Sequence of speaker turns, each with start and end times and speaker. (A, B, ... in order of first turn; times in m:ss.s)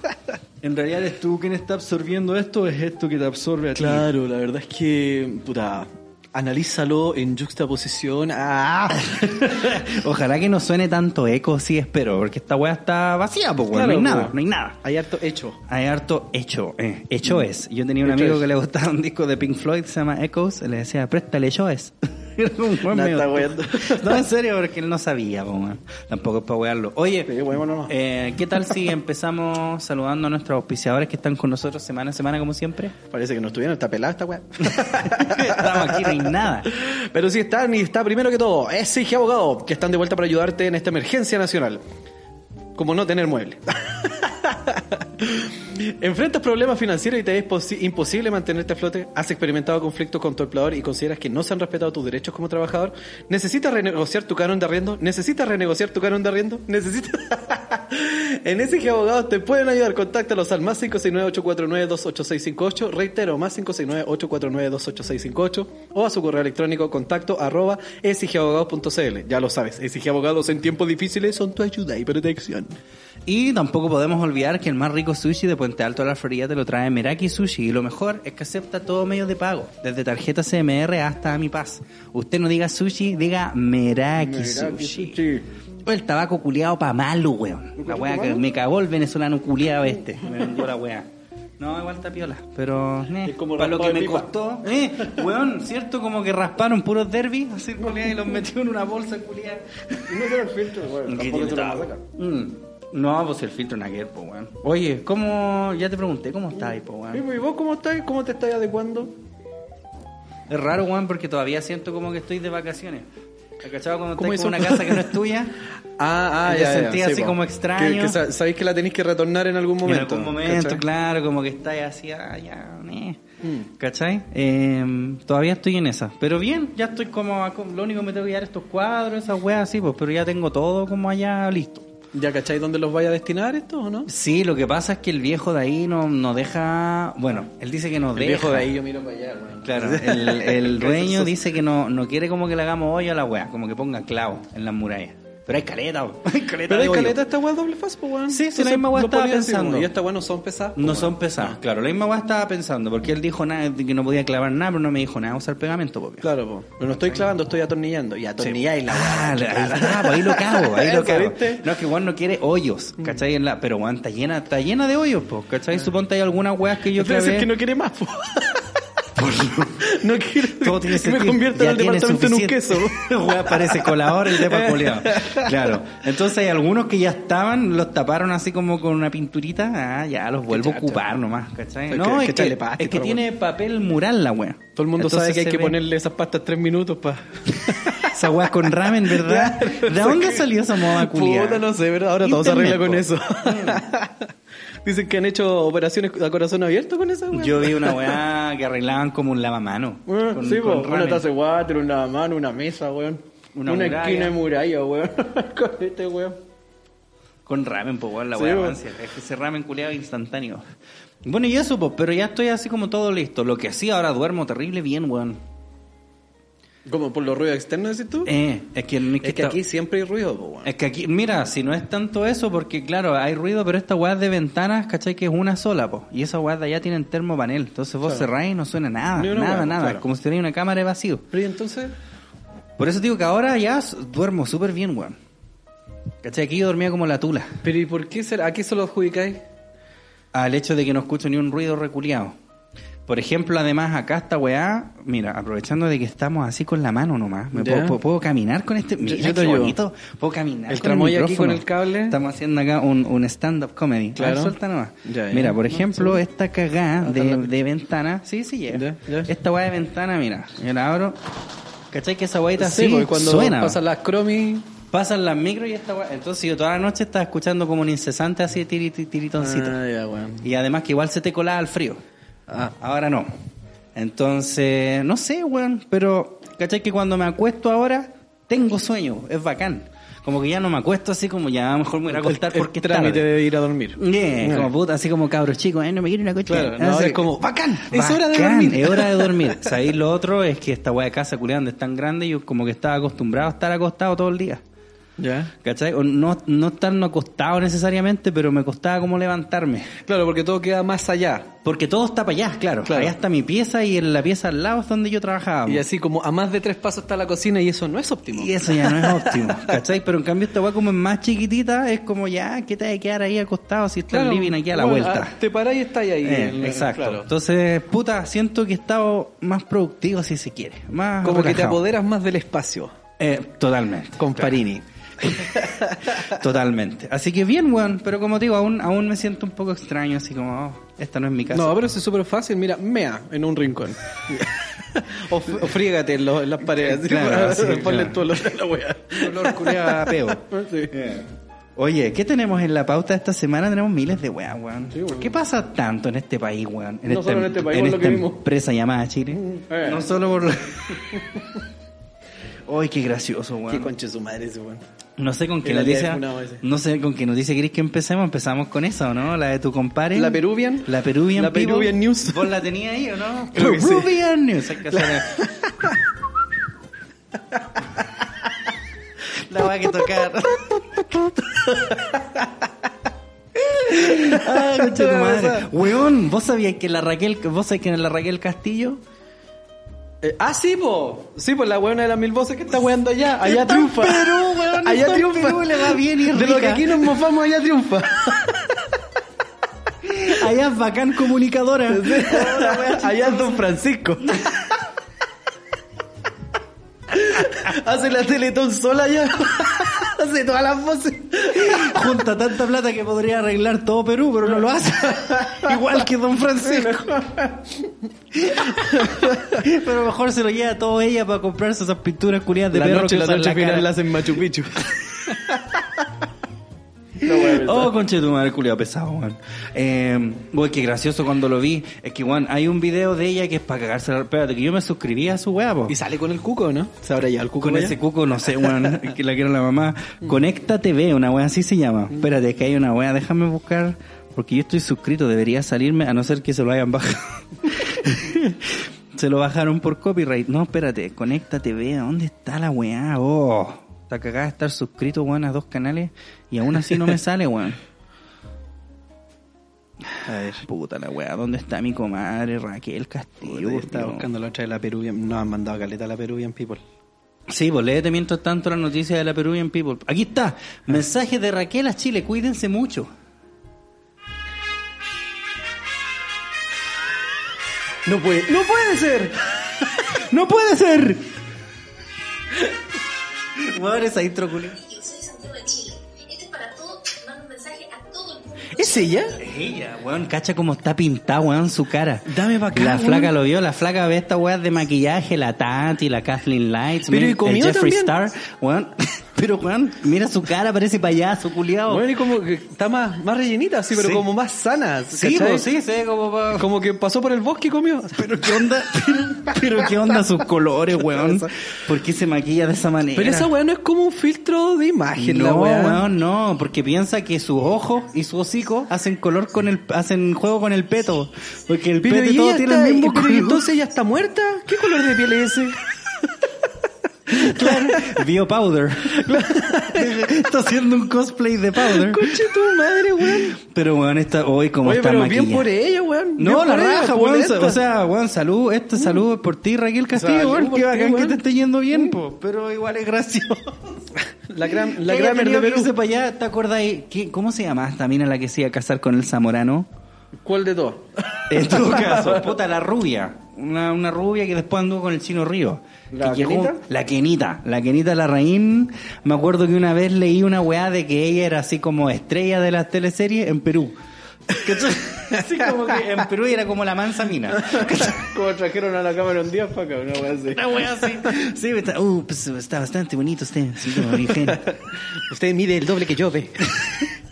0:00.6-0:04.0 A
0:03.8-0:09.7 B
0:09.1-0:14.8 A
0:13.7-0:15.6 B
0:15.7-0:27.3 A
0:18.0-0:18.4 B
0:22.9-0:24.2 B
0:27.2-0:27.9 B
0:27.9-0:32.9 A
0:33.1-0:36.2 B
0:34.8-0:36.7 A
0:36.7-0:41.8 B
0:42.7-1:12.8 B
1:13.2-1:25.2 A
1:24.2-1:25.4 B
1:25.8-1:31.1 A
1:27.8-1:28.4 B
1:31.6-1:40.3 A
1:33.2-1:34.3 B
1:37.8-1:38.1 B
1:40.0-1:42.0 B
1:41.0-1:47.2 A
1:47.1-1:49.2 B
1:50.5-1:53.0 A
1:53.6-1:55.6 A
1:54.2-1:55.1 B
1:56.0-2:00.8 B
1:56.4-1:58.2 A
1:59.8-2:03.2 A
2:03.4-2:03.7 B
2:03.8-2:11.9 A
2:12.1-2:14.1 B
2:14.1-2:18.7 A
2:18.2-2:21.3 B
2:19.6-2:27.2 A
2:26.7-2:31.6 B
2:28.3-2:29.9 A
2:30.8-2:37.3 A
2:36.2-2:41.6 B
2:38.4-2:47.5 A
2:46.9-2:48.7 B
2:49.2-2:49.8 A
2:49.7-2:55.8 B
2:50.5-3:05.8 A
3:00.5-3:01.0 B
3:01.9-3:03.2 B
3:04.8-3:08.2 B
3:07.6-3:11.6 A
3:09.0-3:14.3 B
3:12.2-3:13.8 A
3:14.8-3:18.1 B
3:17.3-3:21.2 A
3:20.1-3:26.4 B
3:23.5-3:24.4 A
3:27.4-3:30.6 A
3:28.3-3:28.8 B
3:31.2-3:35.4 A
3:36.8-3:38.3 B
3:38.2-3:39.6 A
3:39.2-3:40.7 B
3:40.6-3:51.2 A
3:49.2-3:50.0 B
3:51.3-3:51.9 B
3:52.8-3:55.2 A
3:56.2-3:57.6 A
3:57.6-3:59.4 B
4:00.3-4:02.4 A
4:03.1-4:21.2 A
4:07.5-4:08.0 B
4:09.0-4:09.8 B
4:10.7-4:12.2 B
4:14.2-4:16.2 B
4:17.0-4:17.5 B
4:18.7-4:19.3 B
4:21.9-4:23.8 A
4:22.6-4:24.7 B
4:24.9-4:29.8 A
4:29.4-4:30.4 B
4:30.4-4:32.0 A
4:32.5-4:32.7 B
4:32.8-4:33.4 A
4:33.9-4:43.3 A
4:42.1-4:44.7 B
4:44.0-4:54.6 A
4:46.5-4:49.7 B
4:55.2-4:55.5 B
4:55.6-4:59.9 A
5:00.0-5:01.5 B
5:01.6-5:05.8 A
5:02.8-5:03.1 B
5:05.6-5:09.7 B
5:08.3-5:15.4 A
5:14.1-5:17.3 B
5:16.2-5:21.8 A
5:21.2-5:22.9 B
5:23.2-5:24.6 A
5:24.2-5:26.4 B
5:25.2-5:25.6 A
5:26.2-5:31.8 A
5:31.5-5:40.9 B
5:36.7-5:38.4 A
5:39.1-5:51.4 A
5:44.9-5:45.3 B
5:47.1-5:48.4 B
5:49.4-5:50.1 B
5:52.6-5:53.9 A
5:53.7-5:54.8 B
5:55.2-6:05.5 A
5:55.6-5:56.6 B
6:00.1-6:02.5 B
6:03.5-6:04.1 B
6:04.9-6:06.0 B
6:09.3-6:10.9 A
6:10.6-6:12.5 B
6:13.6-6:15.7 B
6:13.8-6:19.0 A
6:20.2-6:28.8 B
6:23.4-6:27.1 A
6:30.0-6:33.6 A
6:31.9-6:34.5 B
6:34.3-6:34.5 A
6:37.1-6:42.0 B
6:41.5-6:47.1 A
6:45.2-6:45.7 B
6:46.6-6:47.9 B
6:48.3-6:53.9 A
6:48.6-6:49.6 B
6:52.7-6:55.5 B
6:57.2-6:58.0 B
6:57.2-7:05.9 A
7:05.9-7:08.0 B
7:07.6-7:27.8 A
7:08.5-7:09.0 B
7:30.2-7:30.6 B
7:30.6-7:34.3 A
7:33.4-7:36.8 B
7:37.5-7:43.1 A
7:48.0-7:49.5 B
7:50.1-7:51.3 A
7:53.6-7:54.8 A
7:54.8-7:59.3 C
7:58.8-7:59.4 B
7:59.4-8:12.1 A
8:02.3-8:03.3 B
8:07.1-8:08.1 B
8:11.9-8:15.6 B
8:13.9-8:14.2 A
8:15.1-8:16.7 A
8:16.6-8:18.6 B
8:18.2-8:23.5 A
8:21.1-8:21.5 B
8:23.1-8:26.0 B
8:25.2-8:33.6 A
8:32.0-8:35.8 B
8:37.3-8:38.2 B
8:37.3-8:42.6 A
8:39.1-8:40.2 B
8:41.8-8:43.6 B
8:43.2-8:45.7 A
8:44.8-8:47.8 B
8:46.4-8:54.1 A
8:50.1-8:51.4 B
8:54.2-8:55.9 B
8:54.8-8:59.9 A
9:00.4-9:02.5 B
9:01.5-9:14.0 A
9:06.1-9:06.8 B
9:14.6-9:18.2 A
9:14.6-9:15.7 B
9:17.6-9:20.6 B
9:20.5-9:24.6 A
9:24.5-9:26.7 B
9:26.8-9:27.1 A